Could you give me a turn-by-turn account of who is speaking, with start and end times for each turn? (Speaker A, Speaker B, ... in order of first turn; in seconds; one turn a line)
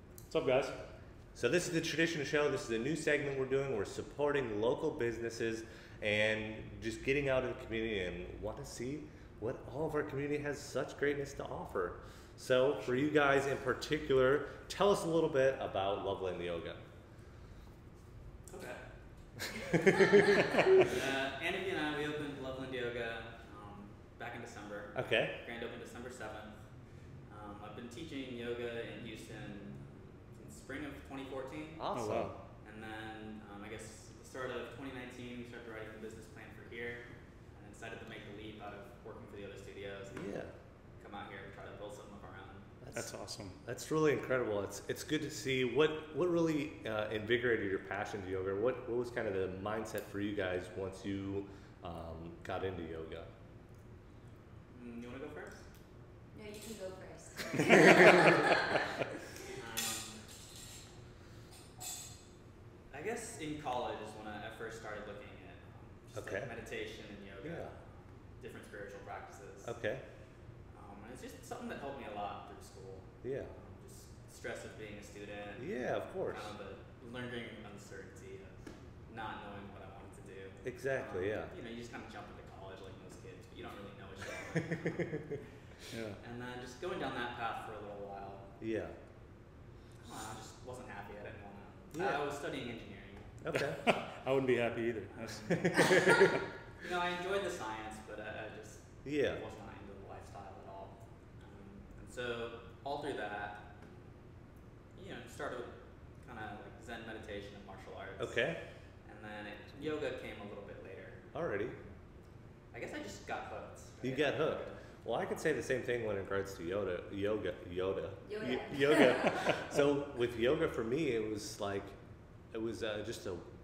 Speaker A: 0.3-0.8
Speaker B: 1.3-16.8
Speaker C: 18.5-18.8
Speaker B: 19.5-20.9
Speaker D: 20.5-20.8
Speaker C: 20.8-26.6
Speaker B: 24.9-25.3
Speaker C: 27.3-31.8
Speaker B: 31.8-32.4
Speaker A: 31.9-32.3
Speaker C: 32.6-40.2
Speaker B: 40.1-40.5
Speaker C: 41.0-42.7
Speaker B: 42.8-43.1
Speaker A: 42.9-43.6
Speaker B: 43.6-53.3
Speaker C: 54.7-55.6
Speaker D: 56.3-58.9
Speaker C: 59.5-60.2
Speaker C: 62.9-69.7
Speaker B: 66.2-66.5
Speaker B: 67.4-67.7
Speaker B: 69.6-70.0
Speaker C: 70.7-88.5
Speaker B: 73.2-73.5
Speaker B: 75.6-76.5
Speaker B: 80.6-81.5
Speaker B: 84.7-85.4
Speaker A: 85.9-86.2
Speaker B: 88.6-88.9
Speaker C: 90.0-93.4
Speaker B: 91.9-92.2
Speaker B: 93.4-93.8
Speaker A: 93.5-96.4
Speaker C: 95.1-103.7
Speaker B: 95.7-96.3
Speaker B: 99.0-99.4
Speaker C: 104.9-108.5
Speaker B: 108.2-108.6
Speaker C: 109.0-111.2
Speaker B: 111.3-111.8
Speaker C: 112.7-114.8
Speaker B: 114.0-122.0
Speaker D: 118.2-119.7
Speaker B: 122.5-123.4